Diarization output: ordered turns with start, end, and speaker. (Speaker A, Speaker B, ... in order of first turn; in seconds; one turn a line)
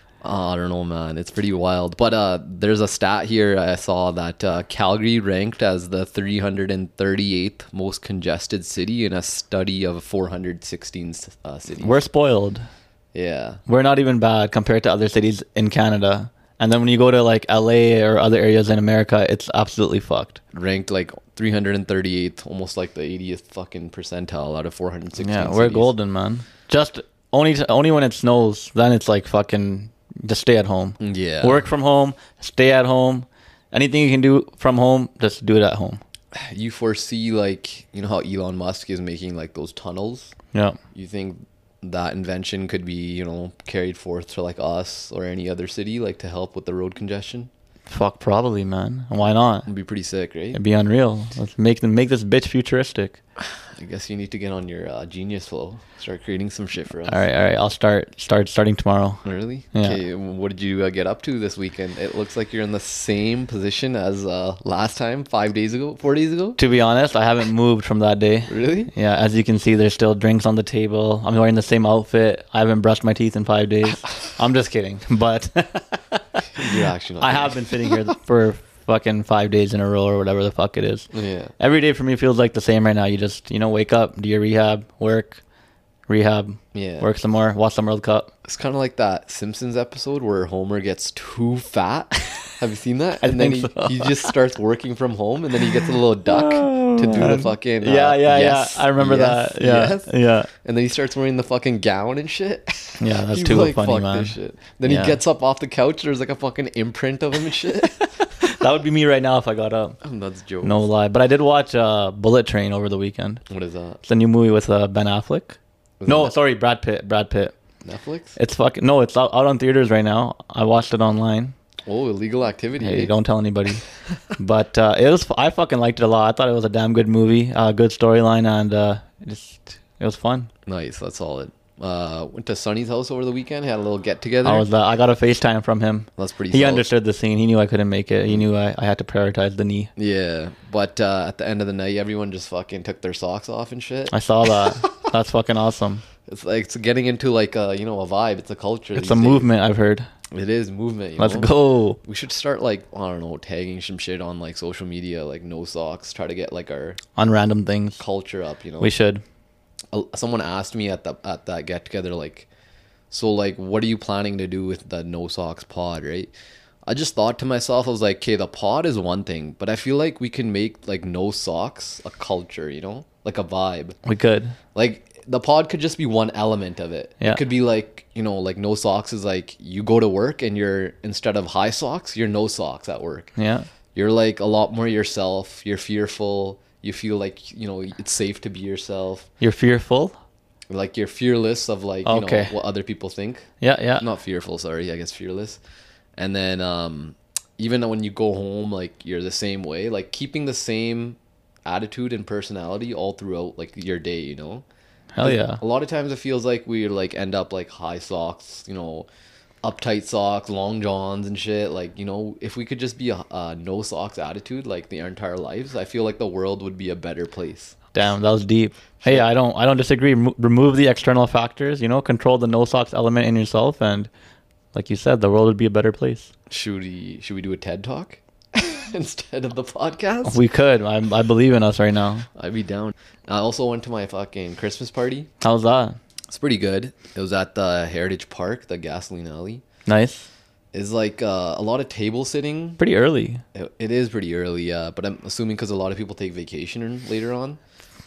Speaker A: 0.2-12.0
Speaker B: 11.8-12.7
Speaker A: 13.1-13.6
Speaker B: 13.7-20.4
Speaker A: 20.5-25.9
Speaker B: 25.2-36.0
Speaker A: 31.0-31.6
Speaker A: 36.3-40.3
Speaker B: 40.5-40.8
Speaker A: 40.9-47.5
Speaker B: 47.9-49.7
Speaker A: 49.7-50.6
Speaker B: 50.5-53.2
Speaker A: 53.4-57.2
Speaker B: 57.1-60.0
Speaker A: 59.2-66.6
Speaker B: 66.6-85.4
Speaker A: 68.5-68.9
Speaker A: 76.5-77.9
Speaker A: 81.1-81.5
Speaker B: 86.1-88.3
Speaker A: 86.7-87.1
Speaker A: 88.4-108.2
Speaker B: 93.2-94.3
Speaker B: 96.3-100.5
Speaker B: 103.0-105.2
Speaker B: 108.4-110.0
Speaker A: 110.0-110.8
Speaker B: 110.6-113.4
Speaker A: 113.5-114.0
Speaker B: 114.0-117.5
Speaker A: 116.0-116.3
Speaker A: 117.8-118.4
Speaker B: 118.3-121.5
Speaker A: 121.8-123.1
Speaker B: 122.8-123.8
Speaker B: 124.3-130.5
Speaker A: 130.7-134.7
Speaker B: 134.4-139.9
Speaker A: 136.2-136.8
Speaker A: 139.9-144.9
Speaker B: 144.1-146.0
Speaker A: 146.2-149.5
Speaker B: 148.9-150.1
Speaker A: 150.3-157.0
Speaker B: 151.2-152.0
Speaker B: 157.2-158.0
Speaker A: 158.0-158.9
Speaker B: 158.8-159.2
Speaker A: 159.9-162.5
Speaker A: 163.1-166.3
Speaker A: 166.8-174.0
Speaker B: 174.0-174.6
Speaker A: 174.7-183.3
Speaker B: 183.3-183.7
Speaker A: 183.9-189.3
Speaker B: 189.4-190.1
Speaker A: 190.7-195.6
Speaker B: 192.0-192.5
Speaker B: 193.6-194.0
Speaker A: 196.2-204.6
Speaker B: 205.1-205.6
Speaker A: 205.2-209.1
Speaker A: 209.6-217.8
Speaker B: 217.9-224.1
Speaker A: 219.0-219.3
Speaker B: 224.7-226.3
Speaker A: 226.5-230.4
Speaker B: 230.2-232.3
Speaker A: 232.3-235.3
Speaker B: 235.4-236.0
Speaker A: 236.3-239.6
Speaker B: 239.9-240.3
Speaker A: 240.7-242.8
Speaker B: 242.8-243.4
Speaker A: 243.5-247.6